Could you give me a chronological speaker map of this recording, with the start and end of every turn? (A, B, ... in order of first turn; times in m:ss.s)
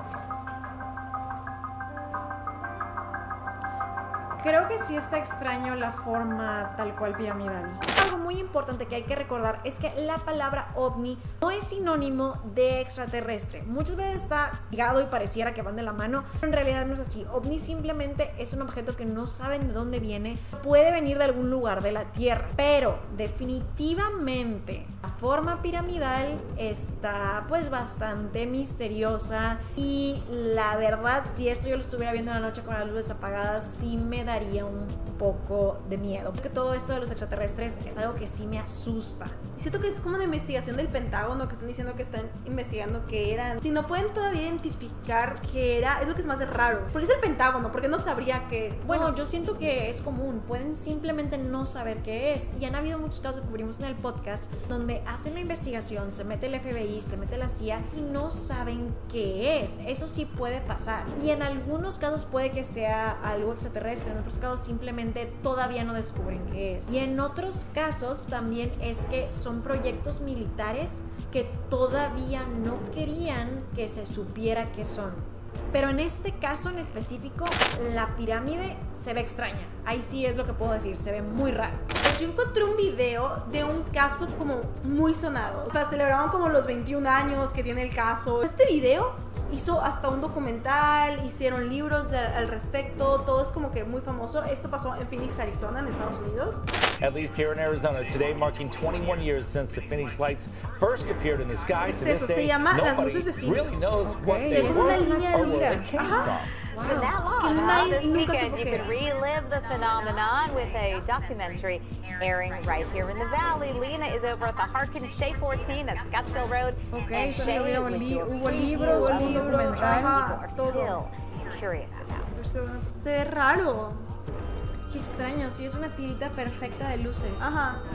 0:04.4-0:39.4 A
0:39.6-0:49.1 B
0:48.8-1:21.9 A
1:22.0-1:36.6 B
1:37.0-1:46.6 C
1:41.8-1:46.4 B
1:44.0-1:47.2 A
1:46.8-2:02.4 D
1:47.4-1:48.9 B
1:56.9-2:00.2 A
1:58.4-2:01.0 B
2:02.3-2:04.0 B
2:04.9-2:07.5 A
2:07.4-2:07.8 B